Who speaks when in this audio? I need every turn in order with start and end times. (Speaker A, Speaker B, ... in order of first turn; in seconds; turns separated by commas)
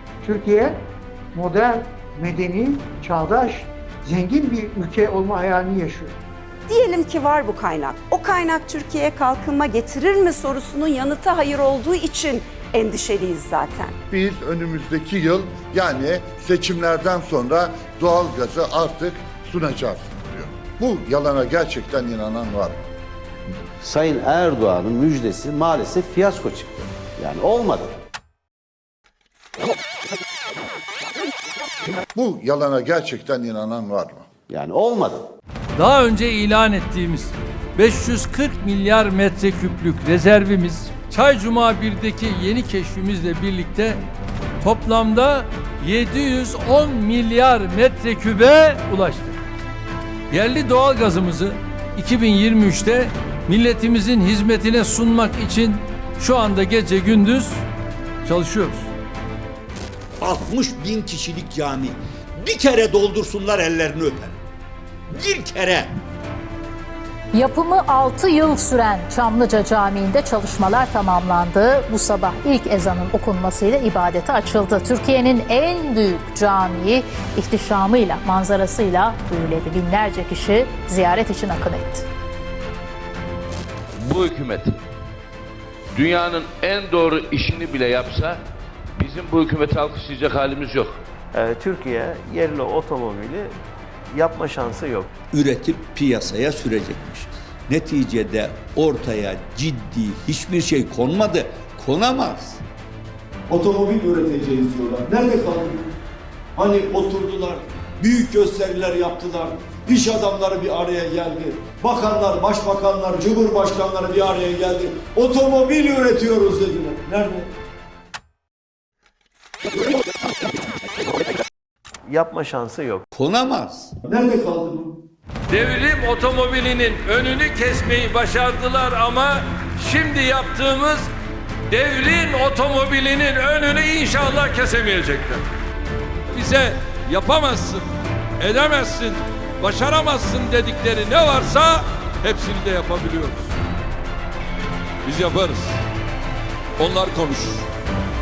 Speaker A: 0.2-0.8, Speaker A: 1.3-6.2, Speaker B: 6.7-13.9, Speaker C: 14.1-22.8, Speaker D: 23.8-27.9, Speaker C: 32.1-34.2, Speaker D: 34.5-35.2, Speaker E: 35.8-44.0, Speaker E: 44.6-49.4, Speaker E: 50.3-57.6, Speaker E: 58.2-58.9, Speaker F: 60.2-64.4, Speaker F: 65.1-65.9, Speaker G: 67.3-82.1, Speaker H: 84.1-84.7, Speaker H: 86.0-88.3, Speaker H: 89.0-90.9, Speaker I: 91.3-93.6, Speaker I: 94.1-95.1, Speaker F: 95.3-102.6, Speaker J: 103.5-105.9, Speaker J: 106.6-117.5, Speaker I: 122.1-123.0, Speaker F: 123.1-123.9, Speaker J: 124.1-125.0, Speaker E: 125.5-131.1, Speaker E: 131.7-135.4, Speaker E: 136.3-137.9, Speaker E: 138.4-143.5, Speaker E: 145.1-145.8, Speaker E: 146.8-147.7